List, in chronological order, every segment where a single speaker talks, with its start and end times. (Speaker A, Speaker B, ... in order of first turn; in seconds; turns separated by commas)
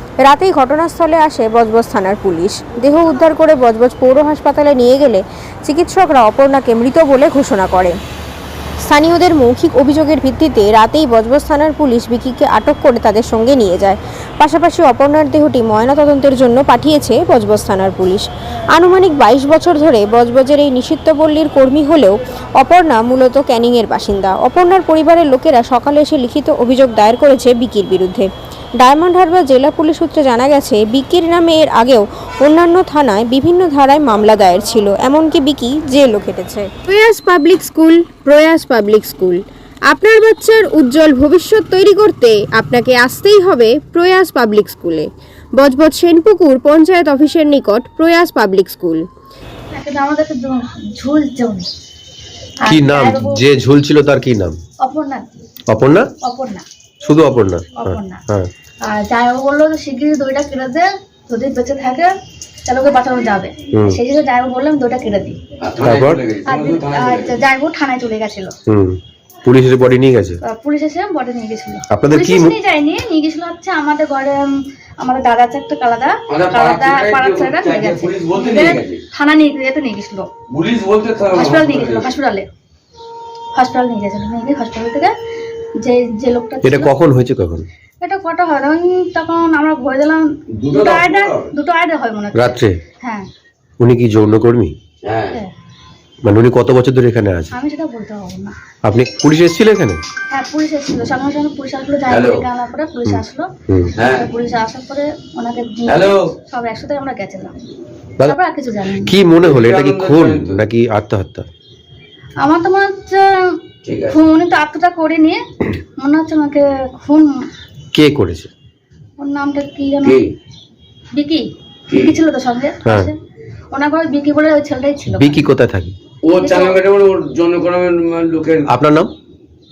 Speaker A: 0.2-7.9, Speaker A: 8.8-28.3, Speaker A: 28.8-49.0, Speaker B: 49.7-51.7, Speaker B: 52.6-53.4, Speaker C: 52.6-54.6, Speaker B: 54.8-55.3, Speaker C: 55.7-56.1, Speaker B: 56.2-56.6, Speaker C: 57.0-58.5, Speaker B: 57.8-58.2, Speaker B: 58.8-62.1, Speaker B: 62.6-65.4, Speaker C: 63.7-64.0, Speaker D: 65.6-67.4, Speaker C: 65.8-66.2, Speaker B: 66.4-68.5, Speaker C: 68.7-70.4, Speaker B: 70.4-80.3, Speaker C: 71.9-72.5, Speaker D: 76.3-79.0, Speaker D: 80.5-82.1, Speaker B: 81.3-82.5, Speaker B: 83.5-85.1, Speaker B: 85.8-86.9, Speaker C: 86.6-87.7, Speaker B: 88.0-93.3, Speaker D: 90.5-91.5, Speaker C: 92.3-92.8, Speaker C: 93.8-94.7, Speaker D: 95.0-95.4, Speaker C: 96.2-97.5, Speaker B: 97.5-98.5, Speaker C: 98.8-100.0, Speaker B: 100.3-103.5, Speaker D: 102.1-102.5, Speaker C: 103.1-103.9, Speaker D: 104.0-104.3, Speaker B: 104.0-107.6, Speaker D: 105.9-106.3, Speaker B: 108.2-109.2, Speaker C: 109.0-111.5, Speaker D: 109.4-110.6, Speaker B: 112.4-113.5, Speaker D: 113.8-114.2, Speaker B: 114.1-115.4, Speaker B: 116.0-117.5, Speaker C: 117.9-118.5, Speaker B: 119.2-120.2, Speaker D: 120.0-120.3, Speaker B: 121.1-123.2, Speaker D: 121.9-122.2, Speaker C: 122.8-123.1, Speaker B: 123.7-125.4, Speaker C: 125.1-125.9, Speaker D: 126.2-128.7, Speaker B: 126.4-126.8, Speaker C: 128.7-129.1